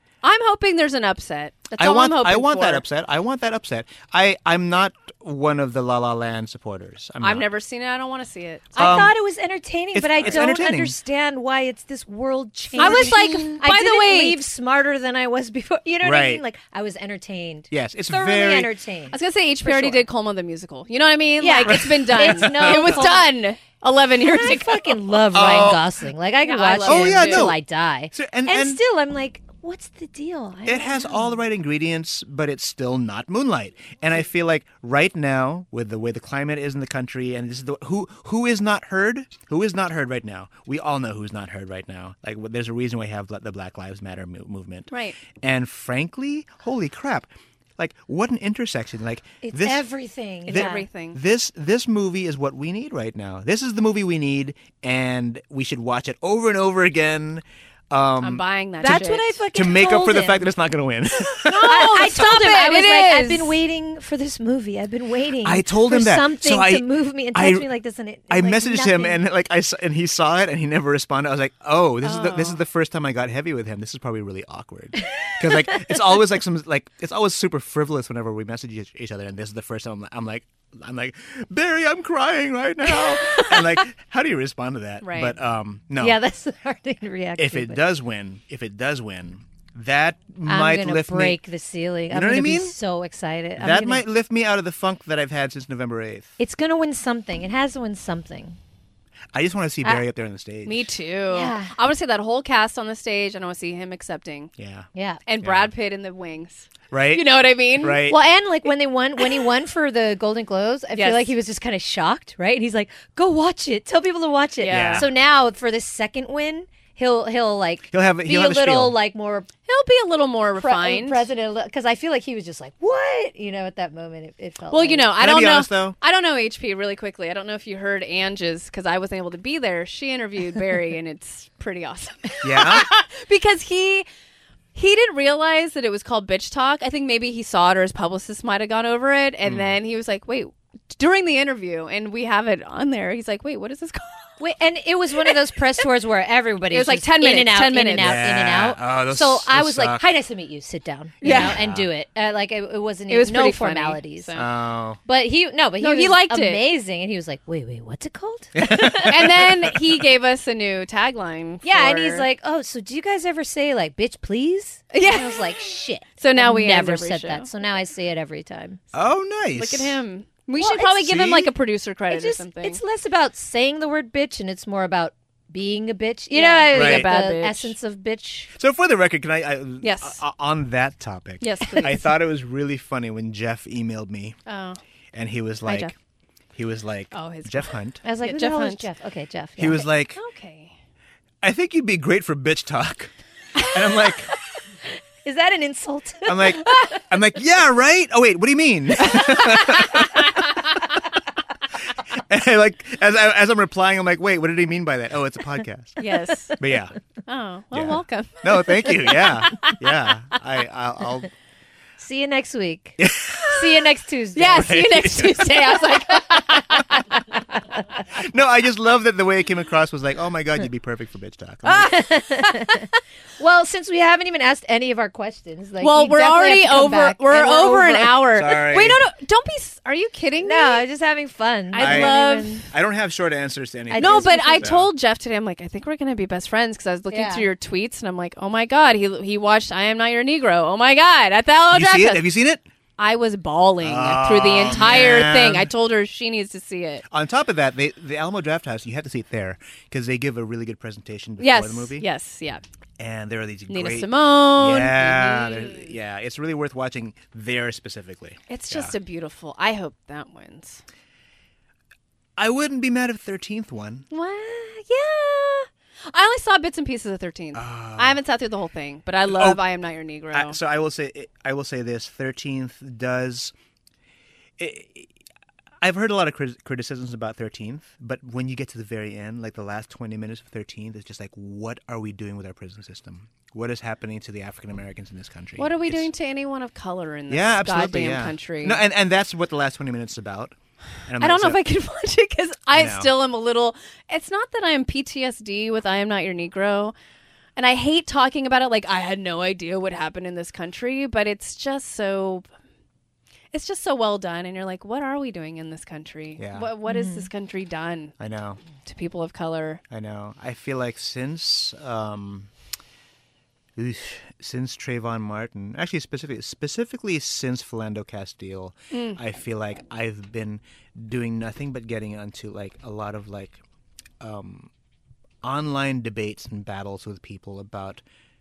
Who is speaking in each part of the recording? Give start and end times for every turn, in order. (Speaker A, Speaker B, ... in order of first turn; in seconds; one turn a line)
Speaker A: 0.2-2.8
Speaker B: 1.8-7.5
Speaker A: 7.2-9.0
Speaker B: 8.8-9.2
Speaker C: 8.8-20.1
Speaker B: 9.9-11.0
Speaker A: 12.8-14.4
Speaker B: 12.8-13.3
Speaker B: 16.0-16.4
Speaker B: 17.7-18.7
Speaker A: 19.1-25.0
Speaker C: 21.4-23.3
Speaker B: 21.7-23.2
Speaker C: 24.2-31.4
Speaker B: 25.3-26.0
Speaker A: 26.4-27.5
Speaker B: 26.8-28.8
Speaker B: 30.6-49.9
Speaker A: 44.9-45.2
Speaker C: 49.4-50.9
Speaker B: 50.5-59.0
Speaker A: 50.5-51.2
Speaker A: 58.2-59.4
Speaker C: 58.8-60.5
Speaker B: 59.5-61.9
Speaker A: 61.5-63.6
Speaker C: 61.5-69.2
Speaker B: 65.4-67.7
Speaker B: 68.3-86.2
Speaker A: 72.0-72.6
Speaker A: 85.0-85.4
Speaker C: 86.0-87.8
Speaker B: 87.4-91.4
Speaker C: 90.5-94.0
Speaker B: 92.1-92.8
Speaker B: 93.6-96.3
Speaker C: 96.4-98.6
Speaker B: 99.3-100.9
Speaker A: 100.7-104.5
Speaker C: 101.3-101.8
Speaker B: 104.6-104.9
Speaker C: 105.0-105.2
Speaker A: 105.3-108.2
Speaker B: 105.4-105.7
Speaker B: 106.9-108.2
Speaker C: 108.0-119.5
Speaker A: 111.0-111.3
Speaker A: 114.6-115.1
Speaker B: 114.7-115.1
Speaker B: 117.9-119.0
Speaker A: 119.7-121.2
Speaker C: 120.6-125.1
Speaker A: 124.7-134.1
Speaker B: 125.2-126.0
Speaker B: 132.4-132.9
Speaker A: 134.7-144.2
Speaker B: 139.4-139.8
Speaker C: 144.4-154.3
Speaker A: 146.7-148.3
Speaker B: 147.9-150.1
Speaker A: 151.2-151.6
Speaker B: 151.2-151.9
Speaker A: 153.1-154.5
Speaker B: 154.3-155.0
Speaker C: 155.1-159.3
Speaker A: 155.8-156.6
Speaker B: 158.6-159.8
Speaker A: 159.1-162.3
Speaker C: 161.6-168.8
Speaker A: 164.9-165.5
Speaker A: 166.2-167.5
Speaker B: 168.9-170.0
Speaker A: 169.6-172.8
Speaker C: 170.6-170.9
Speaker B: 171.0-171.5
Speaker C: 172.1-178.5
Speaker A: 176.3-177.8
Speaker B: 176.7-177.1
Speaker B: 178.6-184.4
Speaker A: 179.8-180.2
Speaker A: 181.4-182.1
Speaker A: 184.5-184.8
Speaker B: 185.1-185.9
Speaker A: 185.7-185.9
Speaker B: 186.6-188.0
Speaker A: 187.1-188.9
Speaker C: 188.0-189.9
Speaker B: 189.6-190.2
Speaker A: 190.2-190.8
Speaker B: 191.4-194.3
Speaker C: 195.2-196.7
Speaker B: 196.3-200.5
Speaker B: 201.9-206.0
Speaker A: 206.0-206.6
Speaker B: 206.6-207.0
Speaker A: 207.3-209.3
Speaker B: 207.7-211.3
Speaker C: 212.0-215.1
Speaker B: 213.0-213.8
Speaker A: 214.3-217.0
Speaker B: 214.6-215.7
Speaker C: 215.7-216.5
Speaker B: 218.1-222.0
Speaker A: 221.7-222.9
Speaker C: 221.8-228.2
Speaker A: 225.8-230.8
Speaker B: 228.3-229.0
Speaker C: 230.4-232.7
Speaker A: 231.7-232.7
Speaker B: 231.8-234.9
Speaker C: 233.9-234.7
Speaker A: 234.0-242.2
Speaker C: 237.1-237.5
Speaker B: 241.7-242.6
Speaker A: 243.0-247.0
Speaker B: 243.8-245.7
Speaker B: 247.1-252.1
Speaker A: 251.4-252.6
Speaker B: 253.0-258.9
Speaker A: 253.7-255.9
Speaker A: 258.5-260.8
Speaker B: 262.4-264.1
Speaker A: 264.1-270.6
Speaker B: 267.5-268.2
Speaker B: 269.3-269.6
Speaker B: 270.3-273.5
Speaker B: 274.6-275.1
Speaker B: 275.8-286.1
Speaker A: 285.6-288.8
Speaker B: 287.3-290.6
Speaker B: 291.1-291.6
Speaker A: 291.2-296.9
Speaker B: 292.7-293.1
Speaker A: 297.6-302.5
Speaker A: 303.5-308.1
Speaker B: 306.4-306.7
Speaker C: 306.9-307.3
Speaker B: 308.2-308.6
Speaker A: 308.8-309.8
Speaker B: 309.9-312.5
Speaker B: 313.8-323.6
Speaker A: 318.9-319.2
Speaker B: 324.2-324.7
Speaker B: 325.4-328.0